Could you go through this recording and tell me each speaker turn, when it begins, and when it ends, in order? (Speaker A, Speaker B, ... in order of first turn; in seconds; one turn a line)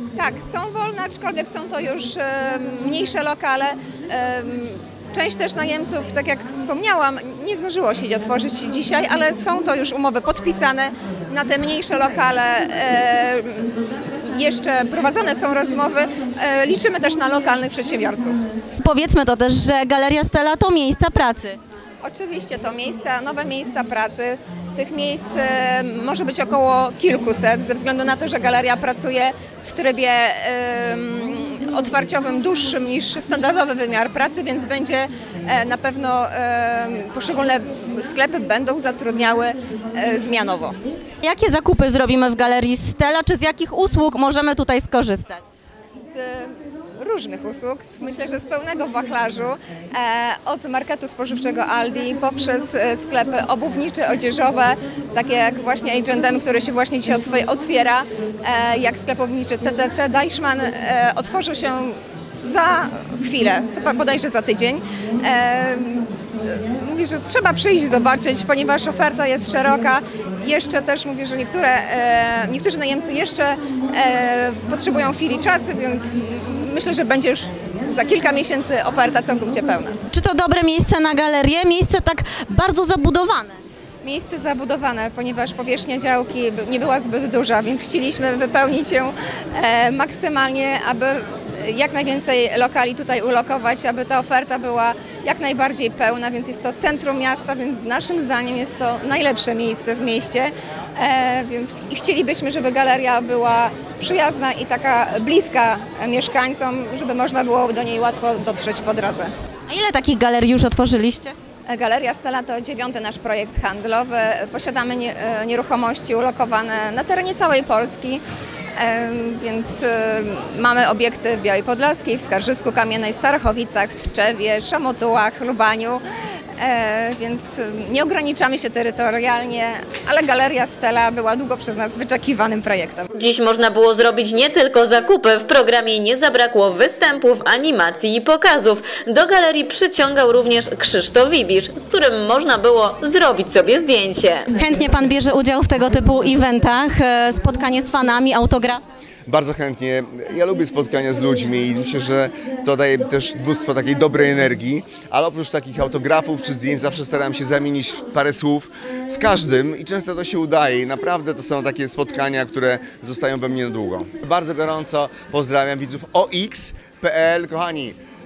Speaker A: 0.2-18.4
Speaker B: 18.8-21.6
Speaker A: 22.0-40.8
Speaker B: 41.2-45.4
Speaker A: 46.1-80.0
Speaker B: 80.1-83.6
Speaker A: 84.0-109.3
Speaker B: 109.7-111.3
Speaker A: 111.7-118.2
Speaker A: 118.8-126.0
Speaker A: 126.6-133.1
Speaker C: 133.2-144.5
Speaker B: 144.6-148.8
Speaker D: 149.3-168.0